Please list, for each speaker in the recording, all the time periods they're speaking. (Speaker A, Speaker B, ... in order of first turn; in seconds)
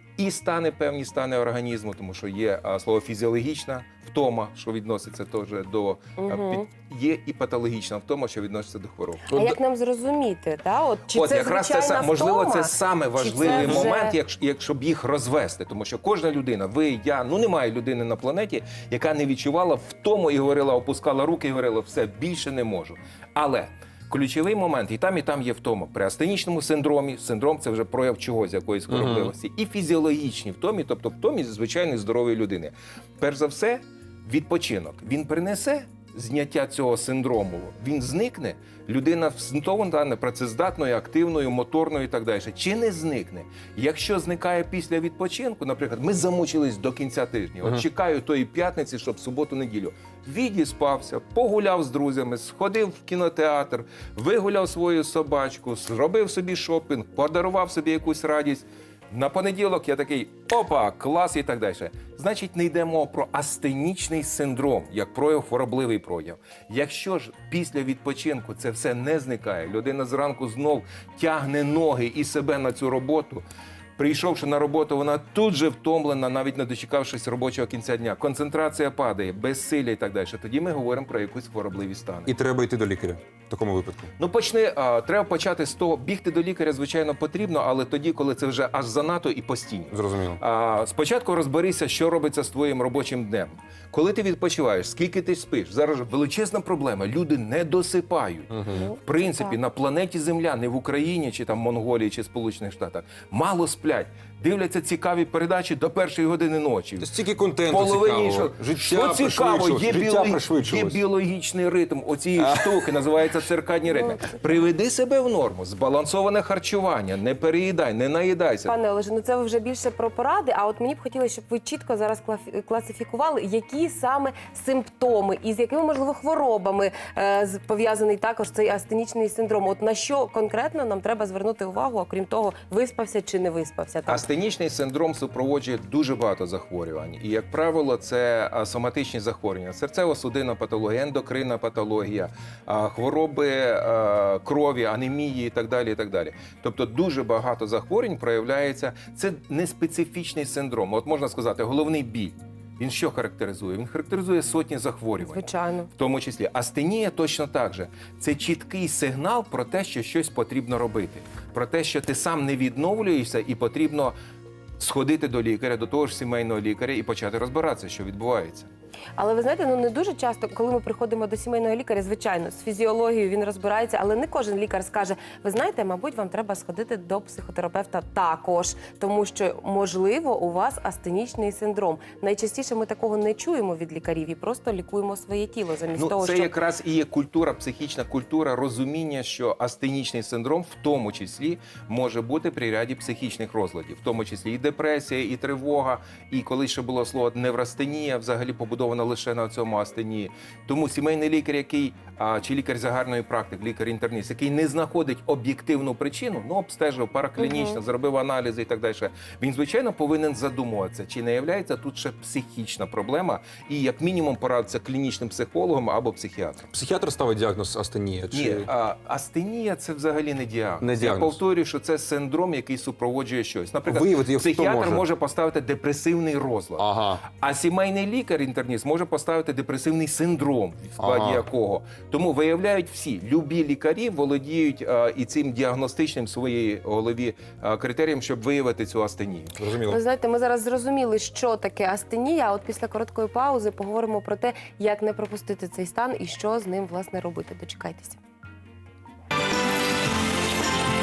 Speaker A: 0.2-9.4, 11.1-82.3, 84.2-107.1, 107.7-118.7, 134.1-164.2, 164.8-168.7, 185.9-216.7, 218.3-239.6
Speaker B: 6.2-6.7, 9.3-14.2, 98.7-99.6, 113.9-114.2, 118.7-134.2, 155.2-155.9, 169.2-186.5, 207.4-207.8, 239.9-248.2
Speaker C: 13.5-13.9, 28.9-29.3, 82.3-84.1, 89.9-90.4, 98.5-98.9, 107.0-111.0, 112.3-112.9, 216.7-218.7, 220.8-221.4, 223.9-225.0, 226.8-227.3, 231.0-231.5, 239.6-240.0